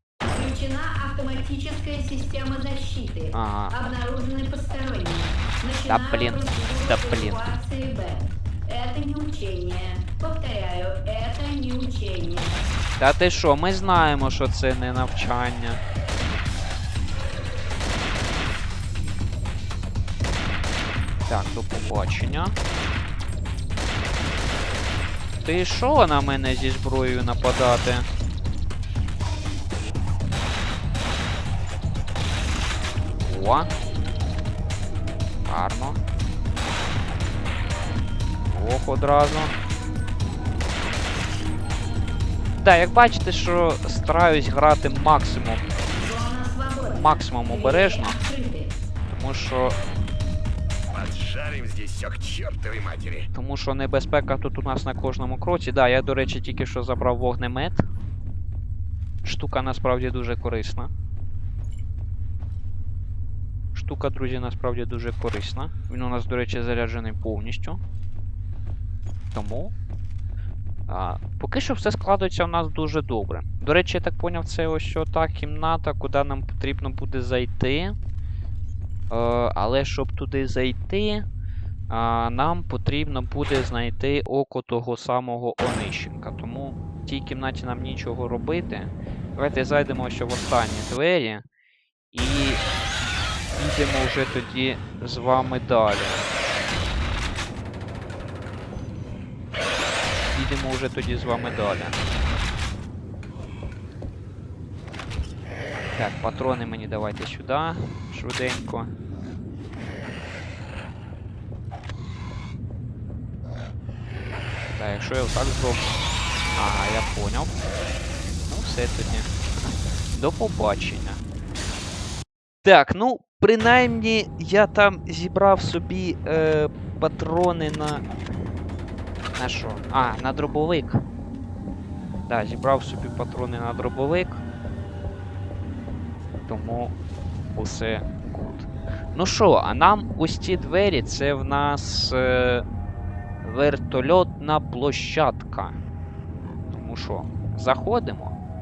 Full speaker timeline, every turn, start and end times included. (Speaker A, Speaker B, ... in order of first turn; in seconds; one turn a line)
Speaker A: 0.3-12.6
Speaker B: 3.3-3.7
Speaker B: 5.9-7.4
Speaker B: 13.0-15.8
Speaker B: 21.3-22.6
Speaker B: 25.4-28.1
Speaker B: 33.2-33.7
Speaker B: 35.5-36.0
Speaker B: 38.5-39.5
Speaker B: 42.6-45.6
Speaker A: 45.9-48.8
Speaker B: 46.9-48.2
Speaker B: 49.1-49.8
Speaker C: 50.9-53.3
Speaker B: 53.3-57.8
Speaker B: 59.2-60.9
Speaker B: 63.7-67.8
Speaker B: 69.3-69.7
Speaker B: 70.9-78.0
Speaker B: 79.1-81.3
Speaker B: 81.9-91.5
Speaker B: 92.1-92.6
Speaker B: 93.5-96.3
Speaker B: 100.3-102.0
Speaker B: 106.0-108.9
Speaker B: 114.8-115.9
Speaker B: 116.6-117.5
Speaker B: 118.5-119.3
Speaker B: 120.1-121.2
Speaker B: 122.6-128.1
Speaker B: 129.4-131.0
Speaker B: 132.3-134.4
Speaker B: 136.5-136.9
Speaker B: 137.6-142.6
Speaker B: 143.4-145.8
Speaker B: 146.7-148.4